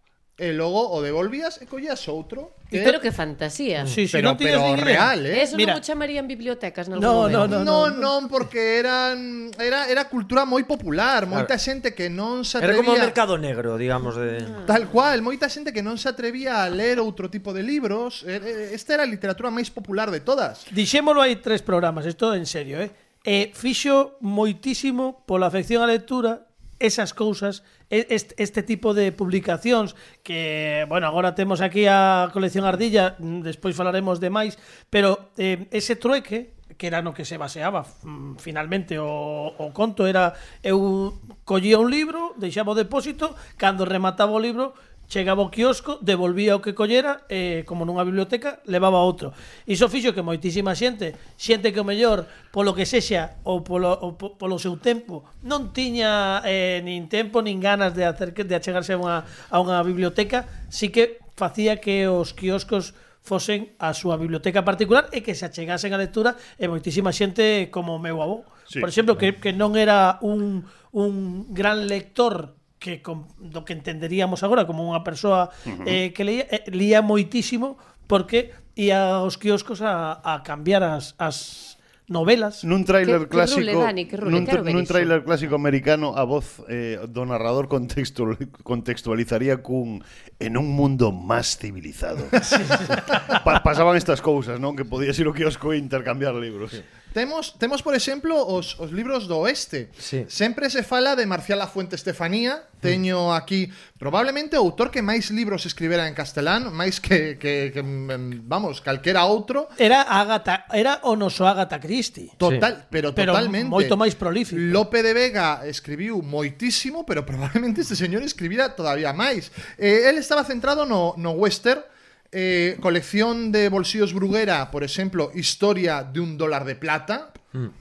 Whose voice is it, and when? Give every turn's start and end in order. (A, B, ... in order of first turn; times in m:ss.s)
0:00.4-0:03.0 A
0:02.7-0:03.9 B
0:03.9-0:05.8 C
0:04.1-0:05.5 A
0:05.3-0:07.6 B
0:07.0-0:08.1 C
0:07.3-0:13.2 A
0:12.6-0:14.6 D
0:14.7-0:20.7 A
0:20.7-1:22.6 C
1:15.7-1:16.0 E
1:22.6-1:36.8 E
1:23.0-1:25.1 B
1:32.4-1:33.0 C
1:37.1-1:49.8 A
1:40.0-1:40.3 D
1:49.8-1:52.3 C
1:52.4-1:54.0 A
1:53.2-1:54.8 C
1:54.5-2:07.4 A